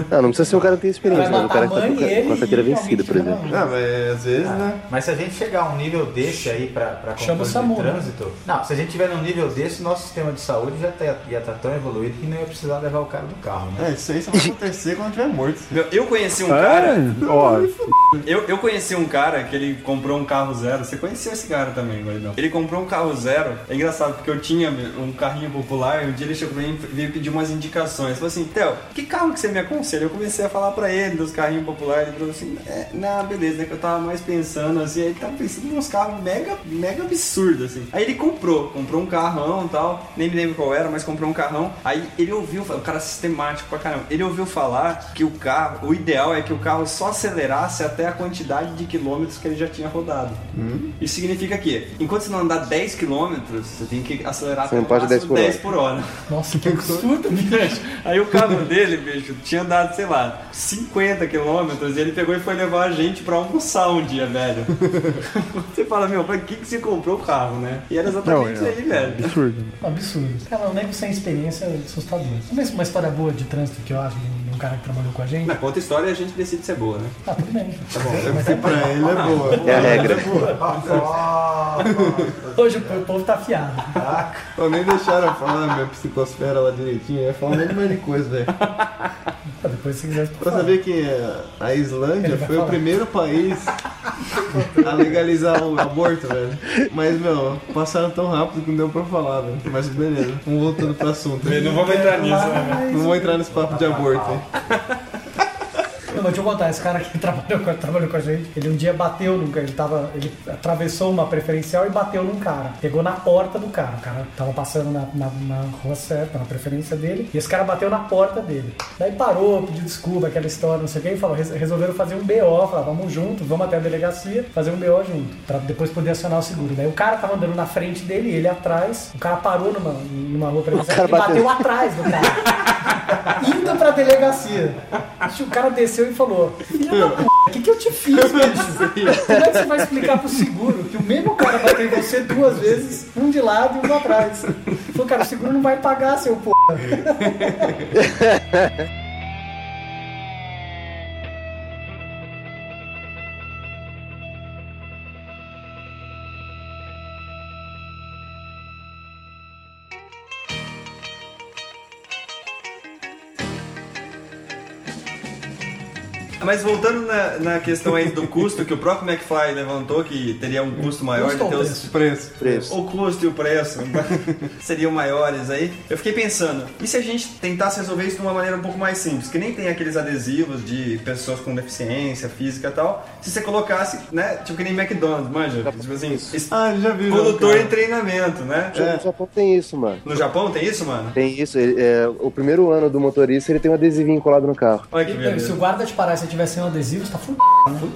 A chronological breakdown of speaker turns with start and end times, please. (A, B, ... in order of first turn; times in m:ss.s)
0:00.1-0:03.6 A
0:01.1-0:03.5 B
0:03.5-0:04.8 C
0:04.4-0:13.9 D
0:07.2-0:08.0 B
0:13.8-0:15.7 C
0:15.7-0:17.0 E
0:16.5-0:17.8 F
0:17.2-0:18.2 C
0:18.2-0:50.4 E
0:50.5-0:50.9 C
0:51.0-0:56.1 E
0:54.7-0:55.6 A
0:56.3-0:57.8 B
0:56.5-0:57.1 C
0:57.3-1:09.3 E
1:08.2-1:09.8 F
1:09.8-1:15.6 B
1:15.4-1:17.2 E
1:17.3-1:19.0 B
1:17.9-1:20.6 E
1:18.0-1:21.1 C
1:19.6-1:20.3 A
1:19.6-1:20.5 B
1:19.7-1:23.0 D
1:21.8-1:22.3 C
1:22.5-1:24.0 B
1:24.0-1:24.3 D
1:24.6-1:28.5 C
1:28.6-1:29.1 E
1:29.6-1:30.7 B
1:30.4-1:33.7 C
1:32.2-1:32.8 B
1:34.5-1:34.8 B
1:34.8-1:41.8 C
1:41.4-1:42.9 E
1:41.4-1:43.4 B
1:42.8-1:44.4 C
1:43.5-1:44.4 D
1:44.7-1:45.0 E
1:46.1-2:12.5 B
2:10.8-2:11.8 A
2:13.3-2:27.7 B
2:16.9-2:17.3 C
2:18.1-2:19.4 C
2:27.4-2:27.8 C
2:46.4-2:51.9 E
2:51.1-2:51.9 B
2:51.8-2:52.4 C
2:52.4-2:52.8 A
2:52.4-3:06.5 E
3:05.6-3:06.4 A
3:06.5-3:07.7 C
3:07.1-3:08.8 E
3:08.7-3:10.0 A
3:08.7-3:09.0 C
3:10.0-3:11.2 E
3:11.2-3:14.9 A
3:14.9-3:15.6 E
3:15.0-3:17.8 B